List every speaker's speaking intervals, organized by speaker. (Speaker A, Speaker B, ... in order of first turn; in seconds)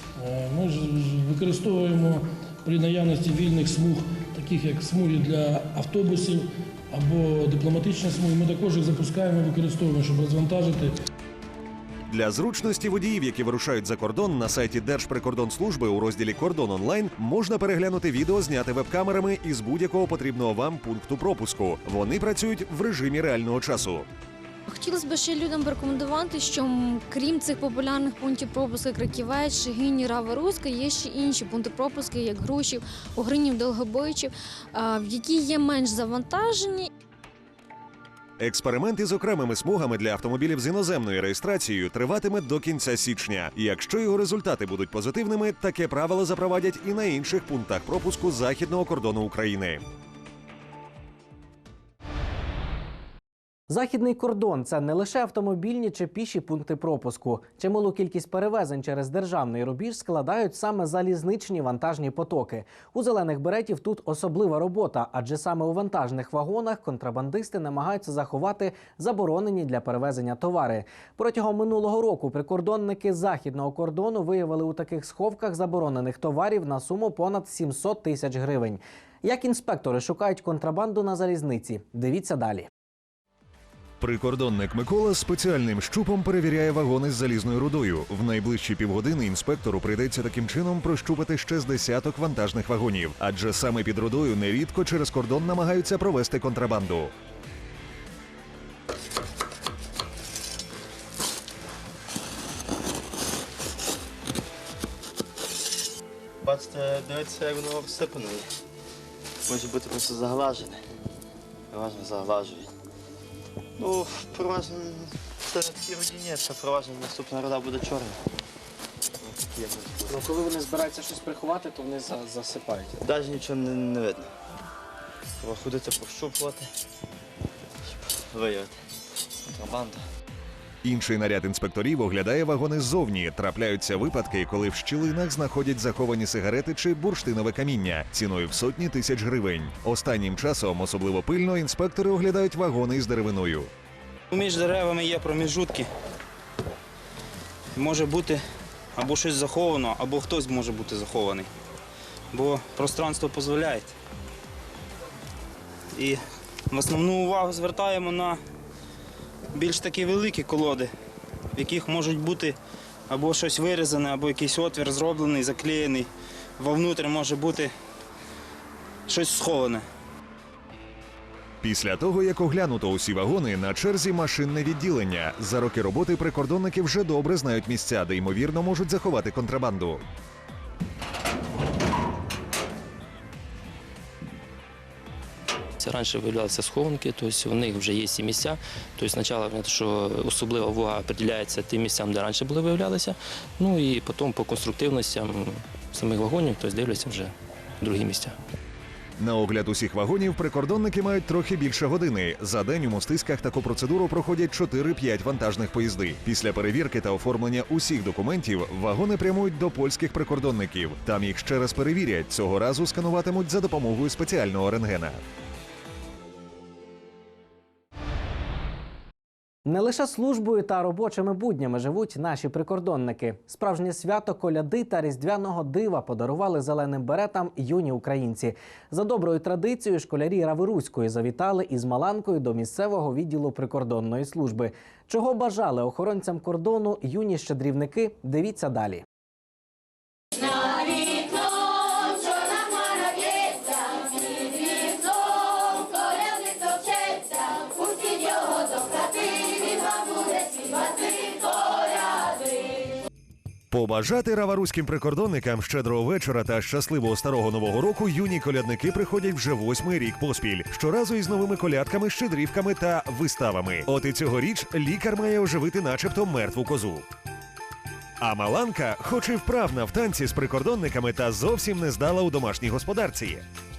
Speaker A: 0.2-10.9
Speaker B: 12.1-24.1, 38.4-49.8, 84.0-97.1, 130.8-143.7, 171.6-180.0, 199.2-215.2, 253.7-267.0, 268.2-273.4
Speaker C: 24.7-36.9
Speaker D: 53.7-82.7, 120.0-123.0, 219.7-239.0
Speaker E: 106.4-108.5, 109.5-110.8, 111.7-112.7, 113.8-118.1, 119.2-120.1, 123.0-124.3, 125.4-126.7, 128.1-128.7, 129.5-130.0
Speaker F: 144.3-145.9, 147.7-148.4, 148.9-151.5, 152.3-153.9, 155.9-158.4, 159.5-160.9, 161.5-162.6, 163.1-167.7, 169.1-169.8
Speaker G: 185.8-198.3